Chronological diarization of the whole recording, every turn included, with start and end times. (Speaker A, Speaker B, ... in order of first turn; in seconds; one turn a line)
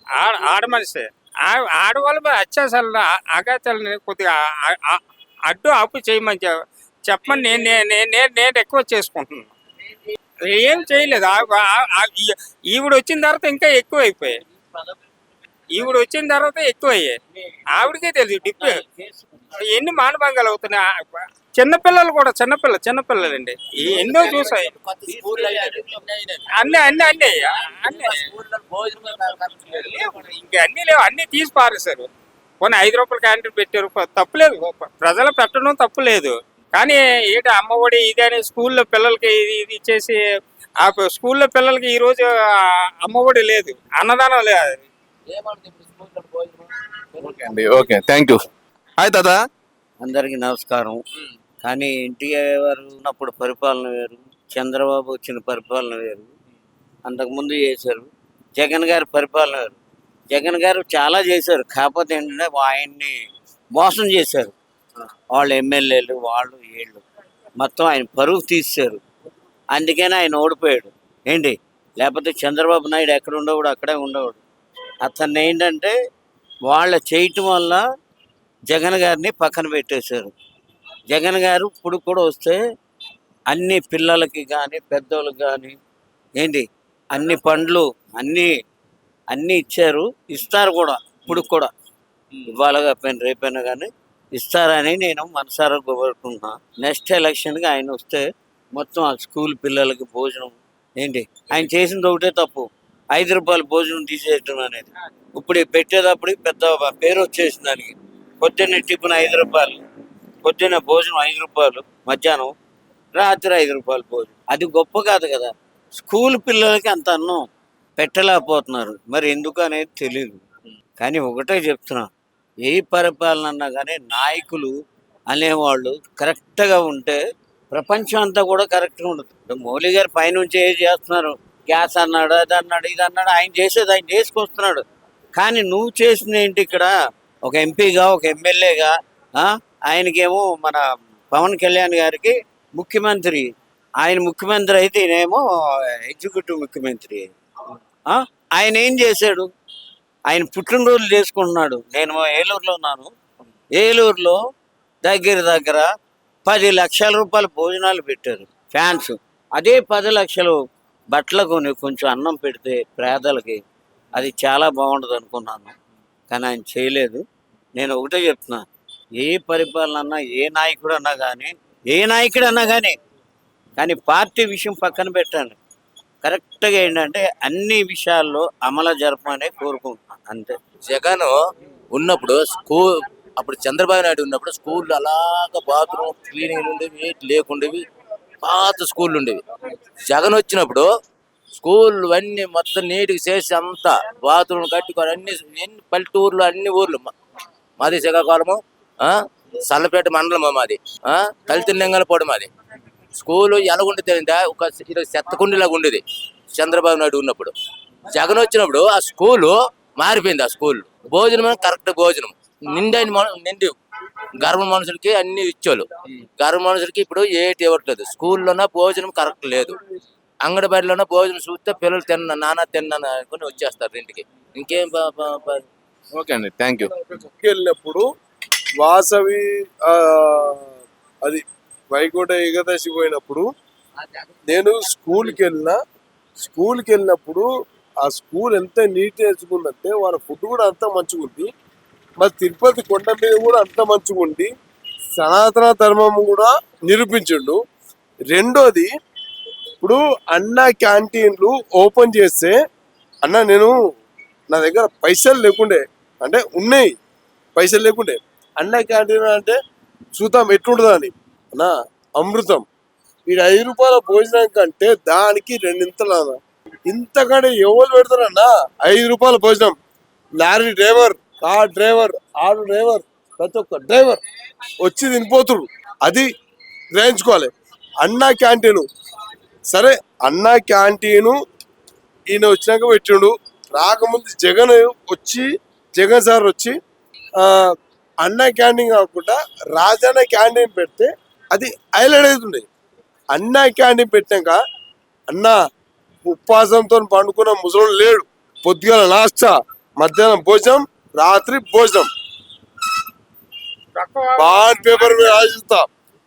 Speaker A: 0.1-6.5
Speaker A: 7.1-9.5
Speaker A: 10.4-14.4
Speaker A: 15.7-17.2
Speaker A: 17.7-18.8
Speaker B: 18.8-19.3
Speaker A: 19.6-24.7
Speaker C: 23.8-27.3
Speaker B: 25.1-26.0
Speaker A: 26.6-28.2
Speaker C: 27.9-30.2
Speaker A: 29.7-32.1
Speaker A: 32.6-40.2
Speaker A: 40.8-44.9
Speaker C: 45.3-47.5
Speaker D: 47.2-48.4
Speaker D: 49.0-49.4
Speaker B: 50.0-51.0
Speaker B: 51.6-56.3
Speaker B: 57.1-59.8
Speaker B: 60.3-63.2
Speaker B: 63.8-64.5
Speaker B: 65.3-67.0
Speaker B: 67.6-69.0
Speaker B: 69.7-74.4
Speaker B: 75.0-76.0
Speaker B: 76.7-77.8
Speaker B: 78.7-80.3
Speaker B: 81.1-82.6
Speaker B: 83.5-85.8
Speaker B: 86.4-88.5
Speaker B: 89.3-91.7
Speaker B: 92.5-109.8
Speaker B: 110.4-112.5
Speaker B: 113.2-117.5
Speaker B: 118.0-120.4
Speaker B: 121.0-122.1
Speaker B: 122.7-124.7
Speaker B: 125.3-134.8
Speaker B: 135.4-136.9
Speaker B: 137.5-147.3
Speaker B: 148.1-149.5
Speaker B: 150.3-153.1
Speaker B: 153.8-154.4
Speaker B: 155.1-155.9
Speaker B: 156.5-160.6
Speaker B: 161.1-163.6
Speaker B: 164.1-165.8
Speaker B: 166.3-167.2
Speaker B: 167.8-168.6
Speaker B: 169.2-173.0
Speaker B: 173.8-175.6
Speaker B: 176.2-180.6
Speaker C: 180.9-181.3
Speaker C: 181.9-187.8
Speaker C: 188.4-189.4
Speaker C: 190.1-190.9
Speaker C: 191.6-197.1
Speaker C: 197.8-202.5
Speaker C: 203.2-206.0
Speaker C: 206.6-207.5
Speaker C: 208.1-213.7
Speaker C: 214.4-215.9
Speaker C: 216.4-219.8
Speaker C: 220.4-225.6
Speaker D: 226.1-226.9
Speaker E: 227.1-228.1
Speaker E: 228.8-230.7
Speaker E: 231.2-233.5
Speaker E: 234.5-235.8
Speaker E: 236.4-237.5
Speaker E: 238.0-241.5
Speaker E: 242.2-244.5
Speaker E: 245.2-247.6
Speaker E: 248.3-248.9
Speaker E: 249.8-252.6
Speaker E: 253.2-253.8
Speaker E: 254.5-256.9
Speaker E: 257.6-259.6
Speaker E: 260.2-262.7
Speaker E: 263.3-269.8
Speaker E: 270.4-274.2
Speaker E: 274.8-276.3
Speaker E: 276.9-278.9
Speaker E: 279.7-281.4
Speaker E: 282.3-286.8
Speaker E: 288.2-292.7
Speaker E: 293.3-294.6
Speaker E: 295.3-295.6
Speaker E: 296.3-302.1
Speaker A: 304.0-305.5
Speaker E: 304.4-305.9